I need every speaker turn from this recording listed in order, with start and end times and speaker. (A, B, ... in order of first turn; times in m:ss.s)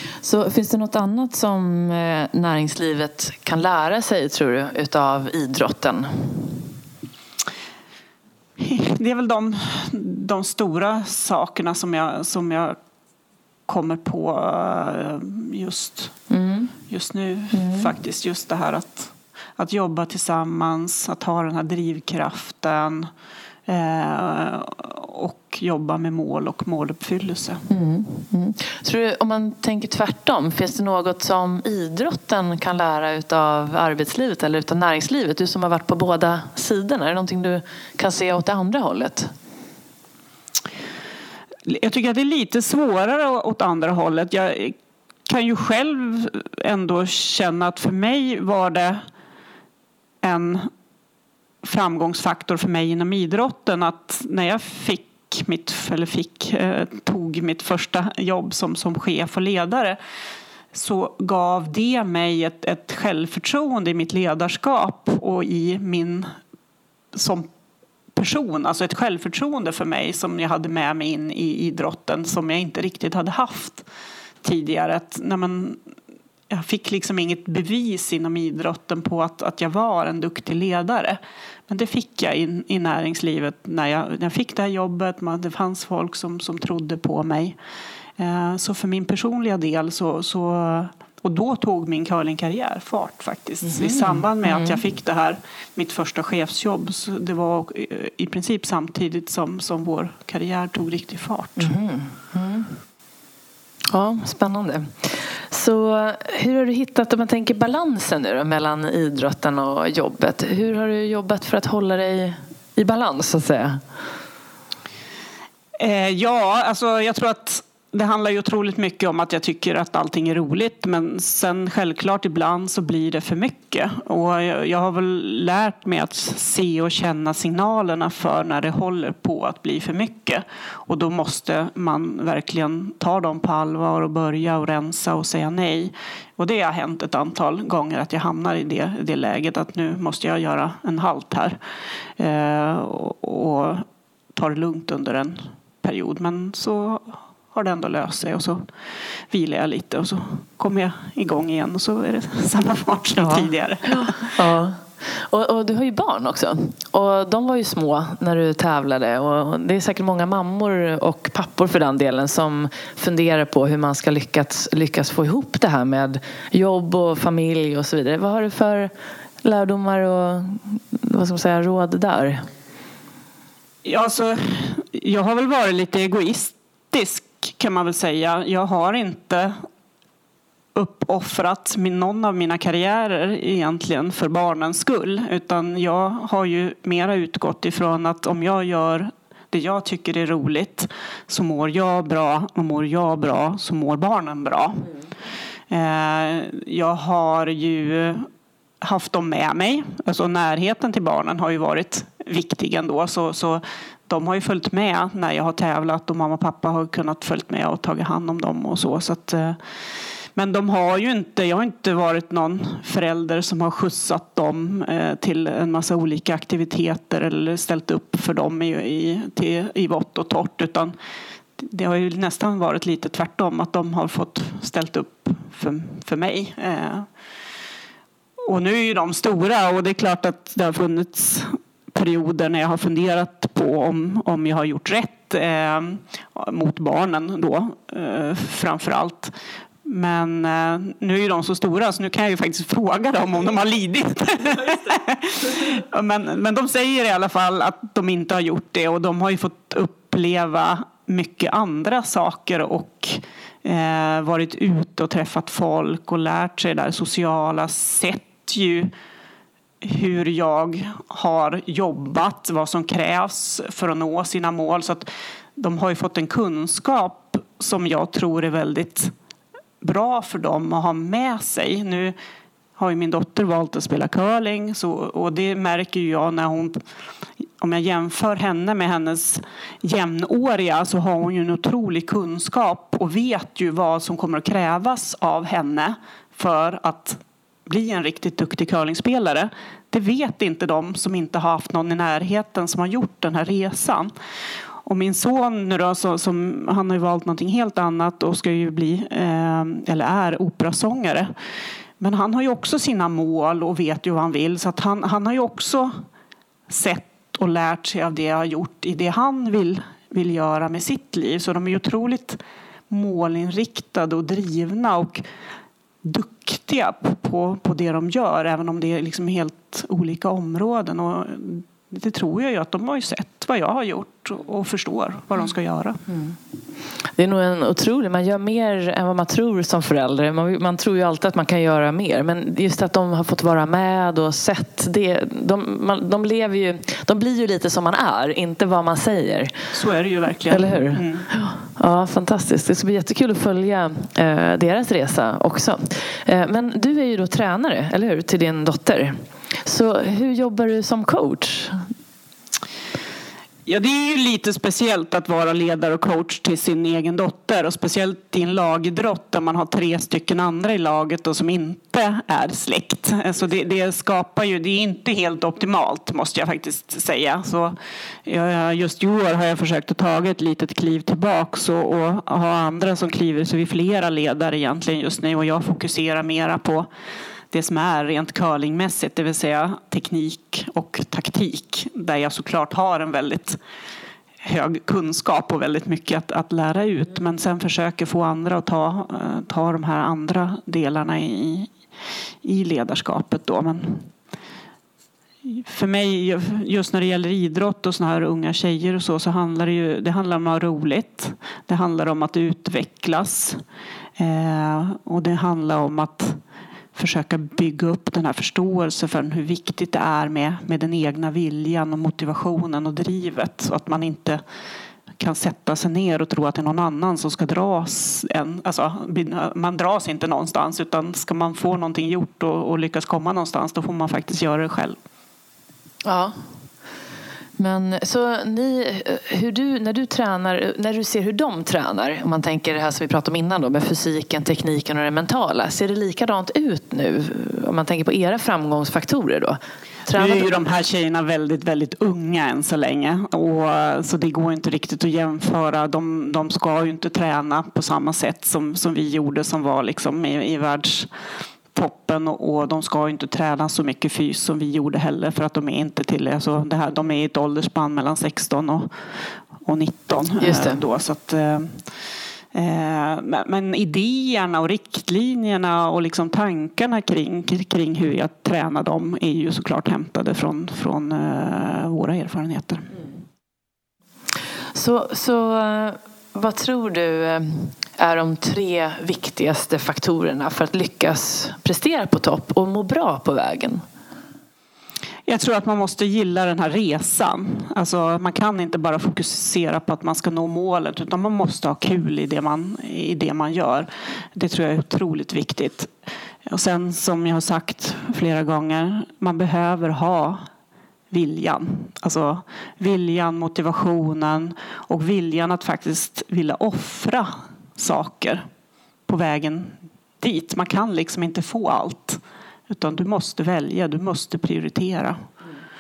0:00.2-0:06.6 A
0:08.6-0:12.8 B
0:13.7-0:16.2 B
0:16.3-0:16.8 A
0:16.9-0:23.1 B
0:17.5-0:17.9 A
0:23.7-0:27.6 B
0:27.7-0:39.3 A
0:41.7-0:49.0 B
0:50.2-0:50.7 B
0:51.6-1:00.0 B
1:00.7-1:06.3 B
1:07.1-1:07.5 B
1:08.1-1:13.9 B
1:14.4-1:15.8 B
1:16.5-1:27.6 B
1:28.2-1:41.7 B
1:33.6-1:34.8 A
1:41.6-1:42.8 A
1:43.9-1:53.8 A
1:55.8-2:21.6 B
2:22.2-2:28.7 B
2:29.3-2:34.3 B
2:33.2-2:48.9 A
2:49.4-2:52.5 A
2:53.8-2:59.5 B
3:00.8-3:15.0 B
3:15.7-3:18.3 B
3:18.8-3:29.6 B
3:30.4-3:41.0 B
3:41.6-3:47.1 B
3:48.5-3:59.3 B
3:59.8-4:18.9 B
4:19.8-4:29.1 B
4:29.8-4:32.2 B
4:32.8-4:36.8 B
4:37.6-4:54.1 B
4:54.8-5:01.3 B
5:02.0-5:05.9 B
5:06.7-5:12.4 B
5:12.9-5:15.2 B
5:16.0-5:26.0 B
5:27.2-5:39.5 A
5:39.7-5:41.3 B
5:40.5-5:51.9 A
5:53.7-6:16.9 B
6:17.5-6:23.6 B
6:24.4-6:31.7 B
6:32.4-6:34.1 B
6:35.4-6:43.6 B
6:44.2-6:46.4 B
6:47.0-6:54.4 B
6:55.2-7:05.0 B
7:06.0-7:06.4 A
7:07.6-7:20.6 A
7:20.2-7:31.1 B
7:31.7-7:38.9 B
7:39.6-7:41.8 B
7:40.4-7:40.8 A
7:42.5-7:53.0 B
7:54.7-8:03.8 A
8:05.3-8:15.9 B
8:16.5-8:20.4 B
8:21.1-8:28.4 B
8:29.1-8:35.2 B